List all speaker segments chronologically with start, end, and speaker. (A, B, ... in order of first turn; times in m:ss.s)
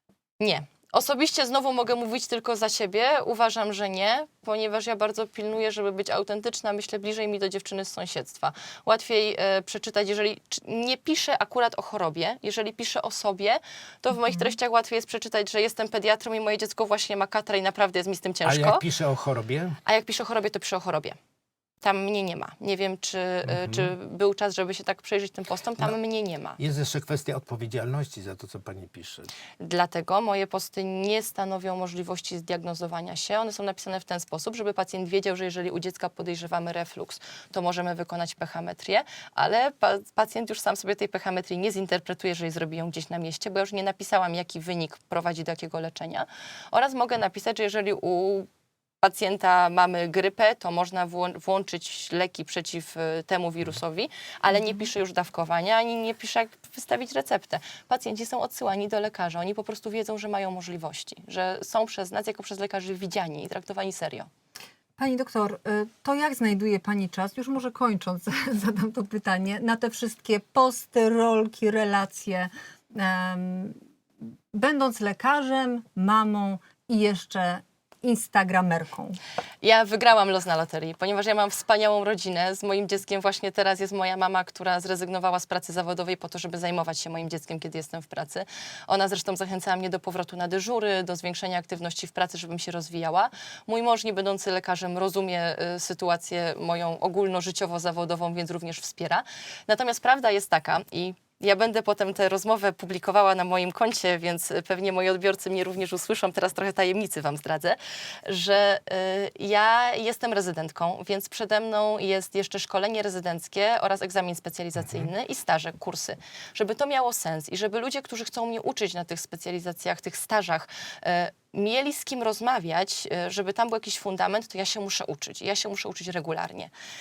0:00.4-0:18.8 A
0:18.4-0:19.8 B
0:19.8-0:21.2 A
0:21.8-0:26.6 A
0:23.4-0:23.9 B
0:26.6-0:29.3 B
0:29.6-0:48.5 A
0:49.0-1:04.3 A
1:05.0-1:13.8 C
1:14.5-1:19.2 C
1:19.6-2:06.7 A